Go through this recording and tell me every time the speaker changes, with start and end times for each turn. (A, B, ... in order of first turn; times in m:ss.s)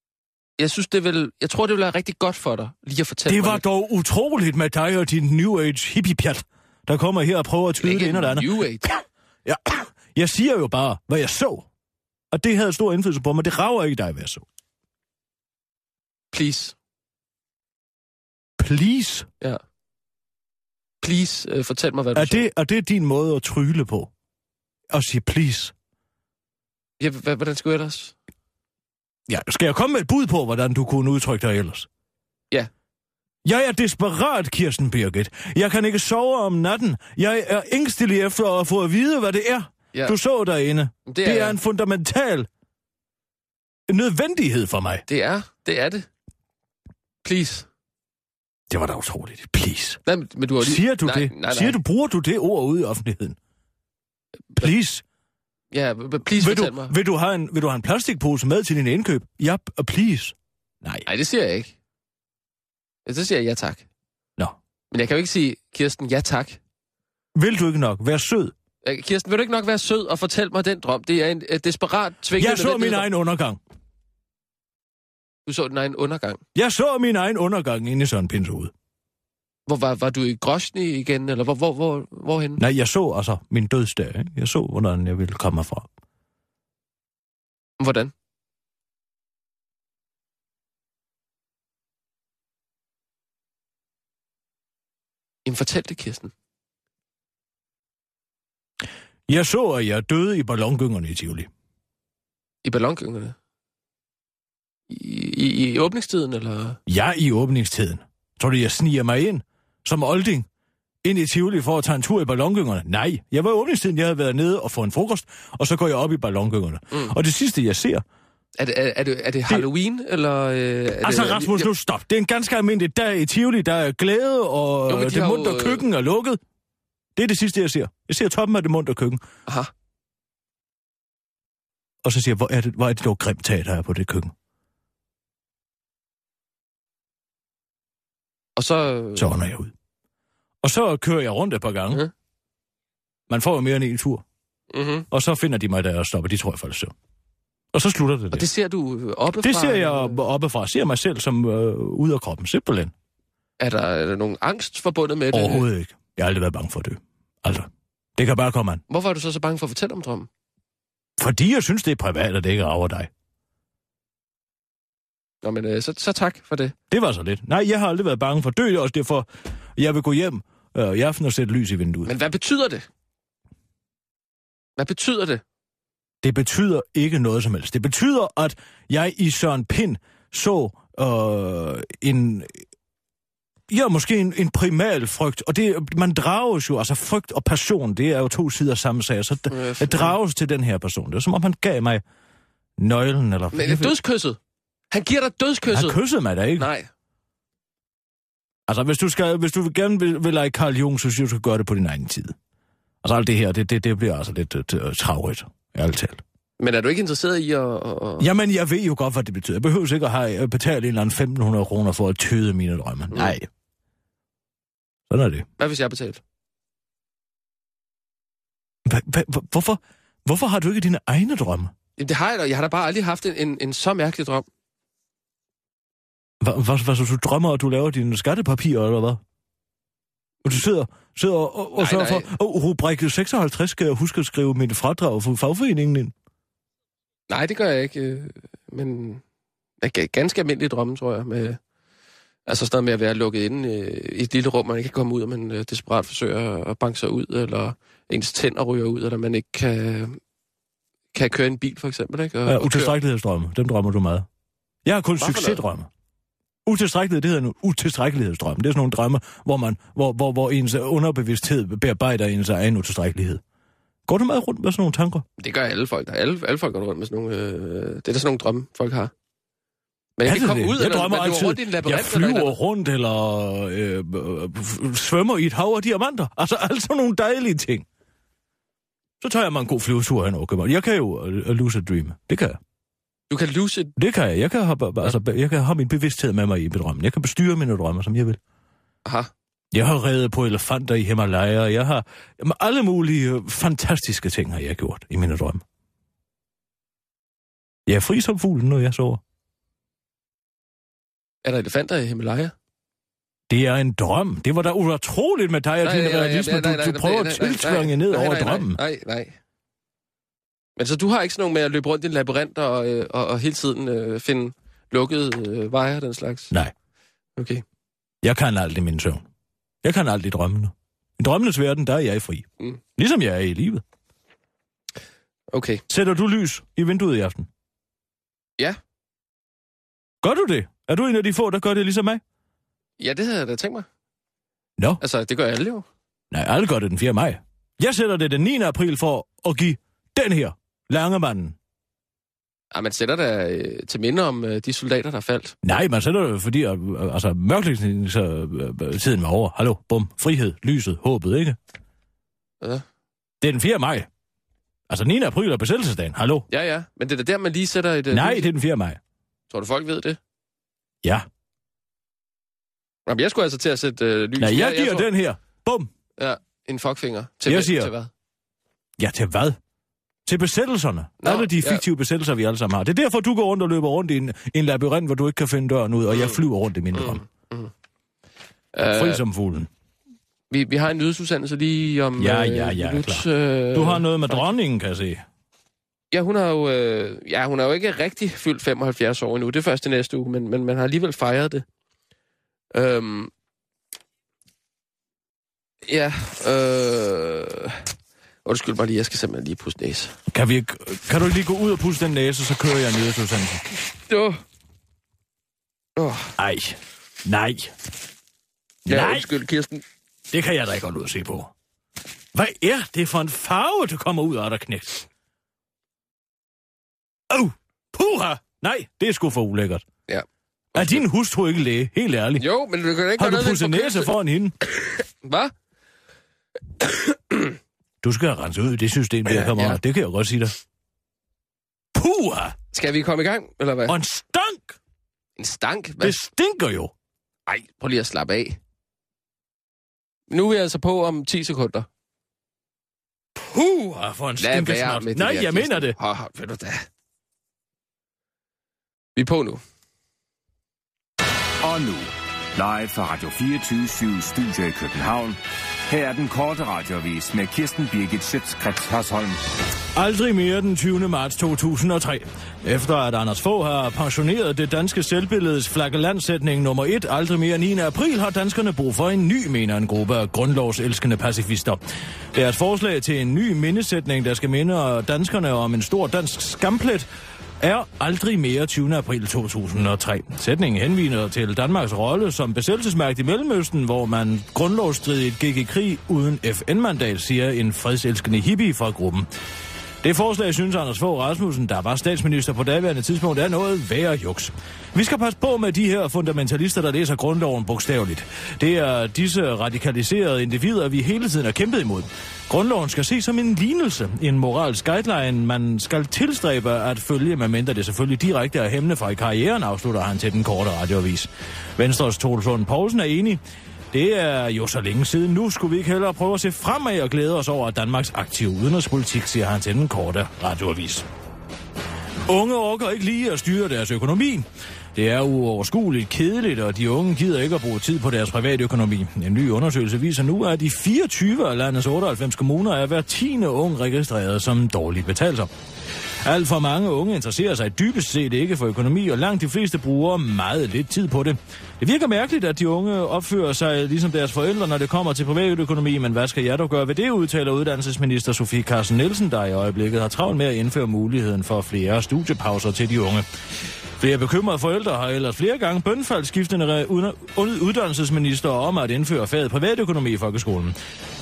0:00.6-0:03.6 A
0:03.2-0:11.6 B
0:07.8-0:08.9 A
0:12.3-0:14.4 B
0:16.3-0:16.7 A
0:18.6-0:19.3 B
0:21.0-0:22.5 A
0:22.1-0:24.1 B
0:24.9-0:25.7 B
0:27.0-0:28.1 A
0:29.3-0:31.9 B
0:33.4-0:42.5 B
0:41.1-0:41.6 A
0:43.9-0:45.0 B
0:45.1-0:46.1 A
0:47.2-0:47.7 A
0:48.7-0:50.0 B
0:50.0-0:51.8 A
0:50.6-0:53.4 B
0:54.5-0:55.0 B
0:55.7-0:56.9 A
0:56.4-1:01.1 B
1:01.0-1:01.7 A
1:03.0-1:03.8 A
1:04.9-1:06.6 A
1:07.3-1:08.5 B
1:08.8-1:13.0 A
1:12.4-1:13.6 B
1:15.4-1:16.4 A
1:16.5-1:18.7 B
1:19.7-1:22.6 A
1:22.6-1:25.9 B
1:27.8-1:28.1 A
1:35.4-1:36.3 A
1:39.3-1:41.5 B
1:42.6-1:43.3 A
1:44.9-1:46.8 A
1:46.9-1:50.5 B
1:51.0-1:58.0 B
1:58.6-2:01.7 A
2:01.0-2:06.4 B
2:04.9-2:05.8 A
2:07.2-2:09.2 B
2:12.0-2:14.3 B
2:18.6-2:19.3 A
2:19.2-2:19.7 B
2:20.6-2:22.0 B
2:23.3-2:24.2 B
2:24.7-2:25.0 A
2:25.1-2:26.9 B
2:27.7-2:28.5 B
2:28.3-2:30.2 A
2:29.4-2:32.9 B
2:33.6-2:35.7 A
2:35.3-2:38.8 B
2:38.9-2:40.3 A
2:41.2-2:43.1 B
2:45.4-2:46.7 A
2:46.9-2:52.1 B
2:52.0-2:52.9 A
2:54.8-2:55.4 A
2:56.2-3:02.6 B
3:03.7-3:12.0 B
3:09.5-3:10.2 A
3:12.8-3:14.0 B
3:13.5-3:14.4 A
3:14.9-3:16.0 A
3:15.7-3:16.7 B
3:16.6-3:16.9 A
3:18.7-3:22.3 B
3:23.0-3:26.2 B
3:26.6-3:28.3 A
3:28.2-3:33.5 B
3:35.1-3:35.5 B
3:35.6-3:36.2 A
3:38.8-3:41.7 B
3:42.0-3:44.5 A
3:46.4-3:49.2 B
3:50.4-3:56.1 B
3:51.8-3:52.3 A
3:57.3-3:59.2 A
3:59.8-4:01.6 A
4:02.5-4:10.2 A
4:11.1-4:12.9 A
4:12.4-4:14.3 B
4:14.8-4:15.9 B
4:15.2-4:15.6 A
4:16.6-4:23.4 B
4:24.1-4:25.2 B
4:25.4-4:29.1 A
4:30.2-4:32.6 A
4:30.2-4:37.8 B
4:39.2-4:42.6 B
4:43.3-4:43.9 A
4:44.0-4:48.4 B
4:49.0-4:49.3 A
4:49.7-4:55.6 B
4:57.9-4:59.2 B
5:01.4-5:02.5 A
5:03.5-5:08.8 B
5:05.8-5:09.3 A
5:10.8-5:16.5 A
5:17.4-5:17.6 A
5:18.2-5:19.2 B
5:19.8-5:23.8 B
5:25.5-5:25.8 A
5:25.9-5:27.5 B
5:30.2-5:32.2 B
5:33.0-5:33.8 A
5:35.0-5:35.8 A
5:36.3-5:41.6 B
5:42.7-5:45.6 A
5:45.6-5:51.6 B
5:53.4-5:54.1 B
5:54.9-5:56.5 B
5:56.5-5:58.5 A
5:58.1-5:59.0 B
5:59.5-6:00.2 A
6:03.0-6:05.1 A
6:04.4-6:05.9 B
6:06.2-6:08.1 A
6:07.4-6:07.9 B
6:09.0-6:09.6 B
6:10.2-6:17.2 B
6:11.2-6:11.8 A
6:16.1-6:16.4 A
6:16.9-6:17.7 A
6:18.7-6:19.2 A
6:18.8-6:19.7 B
6:20.5-6:24.4 A
6:22.2-6:25.2 B
6:26.1-6:31.6 A
6:32.7-6:33.3 A
6:35.8-6:37.8 A
6:38.4-6:40.2 A
6:40.3-6:43.6 B
6:44.1-6:44.4 A
6:46.0-6:46.3 A
6:46.4-6:47.7 B
6:48.8-6:49.3 B
6:48.9-6:49.8 A
6:50.3-6:51.5 B
6:52.3-6:55.1 B
6:57.3-6:59.8 B
7:00.1-7:01.0 A
7:00.7-7:02.5 B
7:02.4-7:04.1 A
7:03.2-7:04.5 B
7:04.8-7:05.5 A
7:06.8-7:07.5 A
7:08.0-7:10.5 B
7:09.2-7:09.8 A
7:11.9-7:12.6 B
7:12.7-7:14.0 A
7:13.8-7:14.8 B
7:15.4-7:16.2 A
7:16.0-7:16.9 B
7:17.5-7:18.6 A
7:20.3-7:21.9 A
7:23.5-7:26.0 B
7:24.4-7:26.8 A
7:29.2-7:29.6 A
7:31.6-7:39.4 C
7:39.9-7:51.8 B
7:52.3-7:57.1 B
7:57.6-8:09.3 B
8:10.0-8:33.4 B
8:33.9-8:41.0 B
8:42.2-8:55.5 B
8:56.2-9:13.2 B
9:14.0-9:20.8 B